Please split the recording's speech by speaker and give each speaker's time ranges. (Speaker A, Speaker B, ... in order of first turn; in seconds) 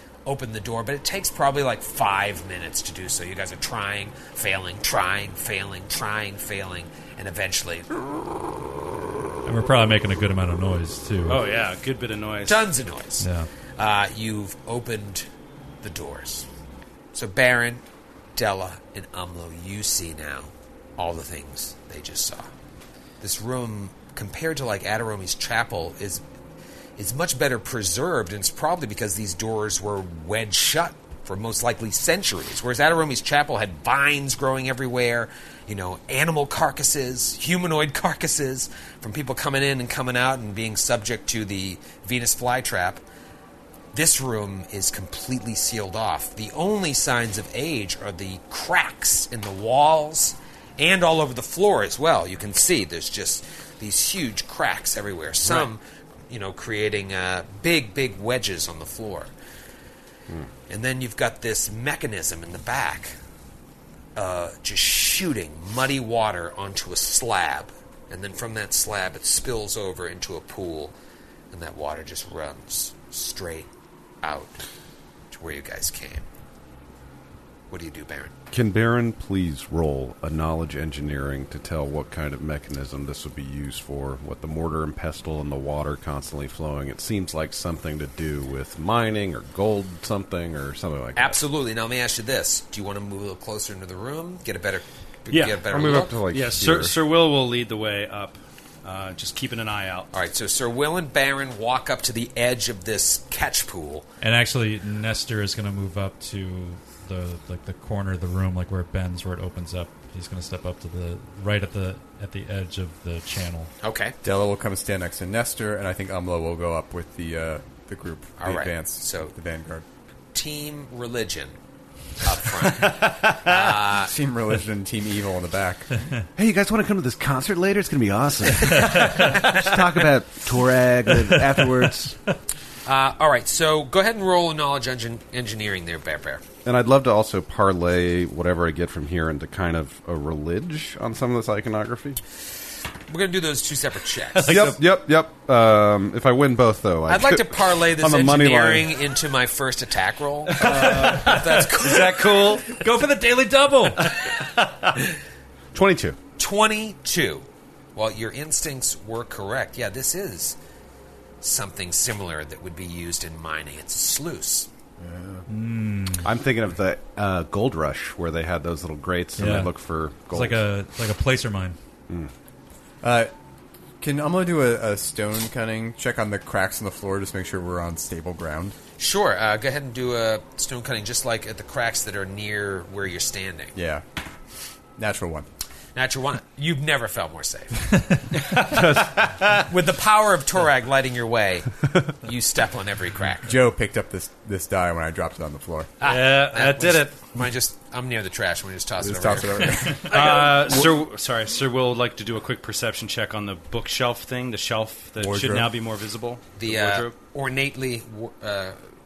Speaker A: 0.2-7.9, 12.4-15.3, 15.8-16.5, 17.1-17.8, 18.3-22.5, 23.2-26.2, 27.0-43.0, 43.9-59.3, 60.7-63.1, 64.2-71.0, 71.5-73.7, 74.2-74.6, 75.3-76.2, 77.7-78.3, 91.2-96.2, 100.1-104.1, 113.8-114.2, 118.4-119.3, 120.3-121.6, 122.2-124.1, 132.8-136.5, 143.1-144.7, 147.1-152.5, 156.4-160.6, 161.4-164.7, 179.0-183.7, 185.9-188.2, 189.7-193.5, 196.0-200.4, 206.6-208.8
Speaker B: 9.4-11.4, 13.2-13.5, 104.2-113.7, 128.8-129.5, 151.1-151.3, 152.7-154.1, 165.5-166.3, 169.3-169.7, 170.2-171.8
Speaker C: 11.3-12.7, 55.4-55.7, 95.3-100.1, 122.9-123.5, 144.3-144.8, 150.5-152.7, 188.3-189.6, 196.0-197.1, 200.0-207.1
Speaker D: 78.5-91.4, 95.7-97.0, 126.3-132.2, 136.6-142.2, 144.5-148.9, 155.7-156.2, 165.0-165.4, 166.2-170.6
Speaker E: 114.2-119.8, 124.0-125.9, 173.0-173.3, 174.0-178.8, 183.7-184.0, 185.0-185.5, 193.4-195.9, 199.0-200.2, 205.2-205.7